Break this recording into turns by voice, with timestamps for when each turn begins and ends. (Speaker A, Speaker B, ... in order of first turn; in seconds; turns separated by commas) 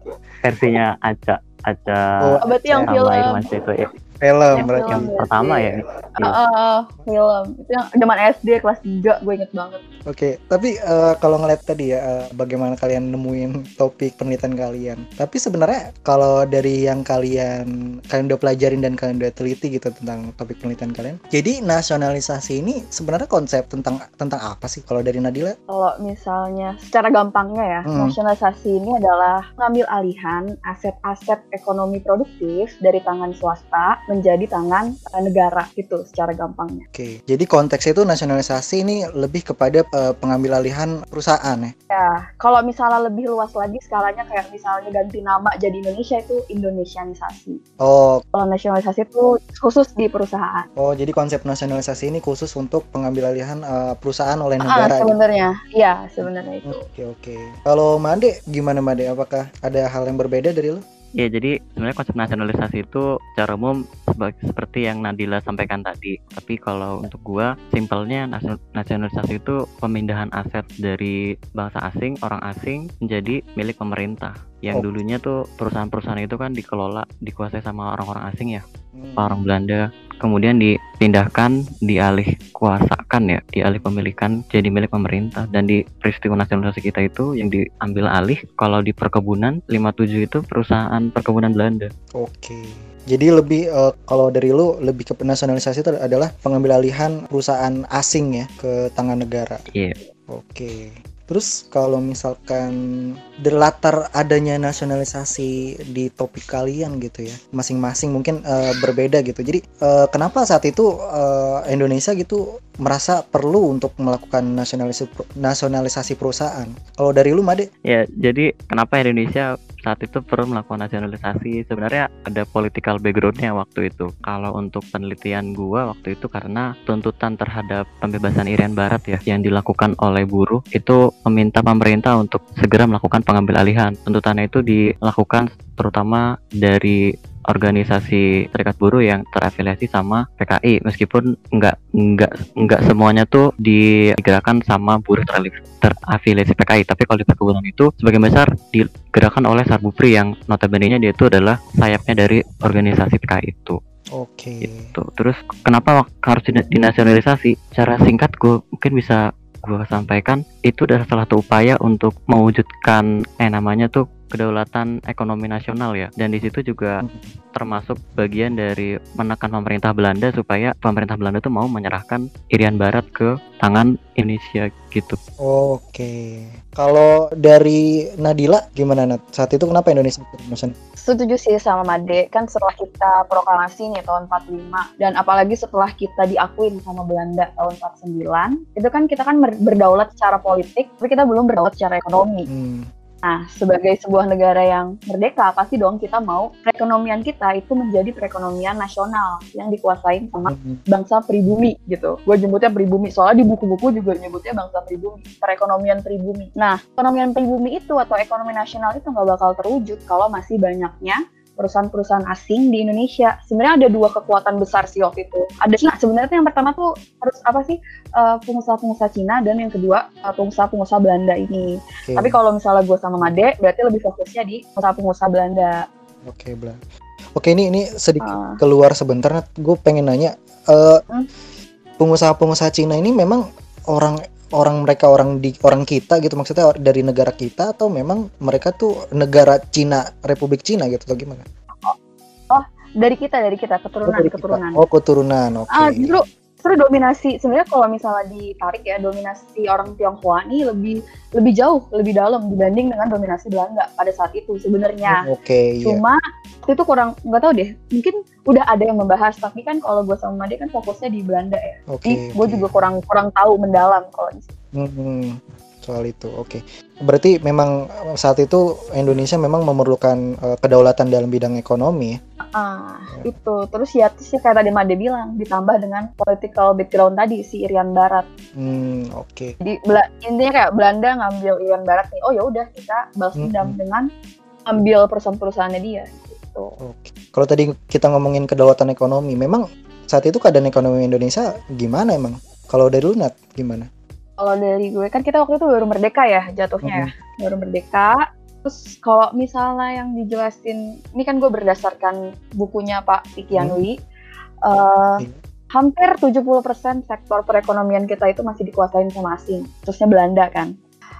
Speaker A: 0.4-2.4, Speaker B: 2.2-2.9, Speaker C: 2.4-3.4, Speaker A: 2.9-3.9, Speaker B: 4.2-5.1, Speaker C: 4.6-9.8, Speaker A: 4.6-6.3, Speaker B: 10.1-25.6, Speaker C: 25.7-36.8, Speaker B: 27.9-28.1, Speaker B: 36.9-41.7, Speaker C: 41.9-47.6, Speaker B: 47.8-48.2, Speaker C: 48.3-50.7, Speaker B: 50.8-55.2, Speaker C: 54.7-56.8, Speaker B: 56.2-60.8, Speaker A: 61.2-78.6, Speaker B: 79.0-79.4, Speaker A: 79.2-91.9, Speaker B: 92.2-99.6, Speaker B: 100.3-102.8, Speaker B: 103.4-117.7, Speaker A: 117.9-137.0, Speaker A: 137.5-153.8, Speaker B: 154.2-154.9, Speaker A: 154.9-167.0, Speaker B: 167.0-167.3, Speaker A: 167.5-175.2, Speaker B: 175.4-180.7, Speaker C: 181.0-192.5, Speaker B: 192.5-192.9, Speaker C: 193.3-221.7, Speaker B: 200.5-200.8, Speaker B: 222.1-222.4, Speaker C: 222.2-225.8, Speaker B: 226.2-226.8, Speaker B: 227.4-231.0, Speaker C: 228.2-228.6, Speaker B: 232.0-233.4, Speaker B: 233.9-241.4, Speaker C: 242.5-244.8, Speaker B: 244.1-246.2, Speaker C: 245.8-255.2, Speaker B: 255.1-256.0, Speaker C: 255.8-264.5, Speaker B: 261.9-262.7, Speaker B: 264.7-272.2, Speaker C: 272.5-278.2, Speaker B: 278.6-279.5, Speaker C: 279.6-284.1, Speaker B: 283.4-283.8, Speaker C: 284.7-286.8, Speaker B: 286.8-293.9, Speaker C: 294.4-303.9, Speaker B: 296.8-297.1, Speaker C: 304.7-305.2, Speaker C: 305.7-310.7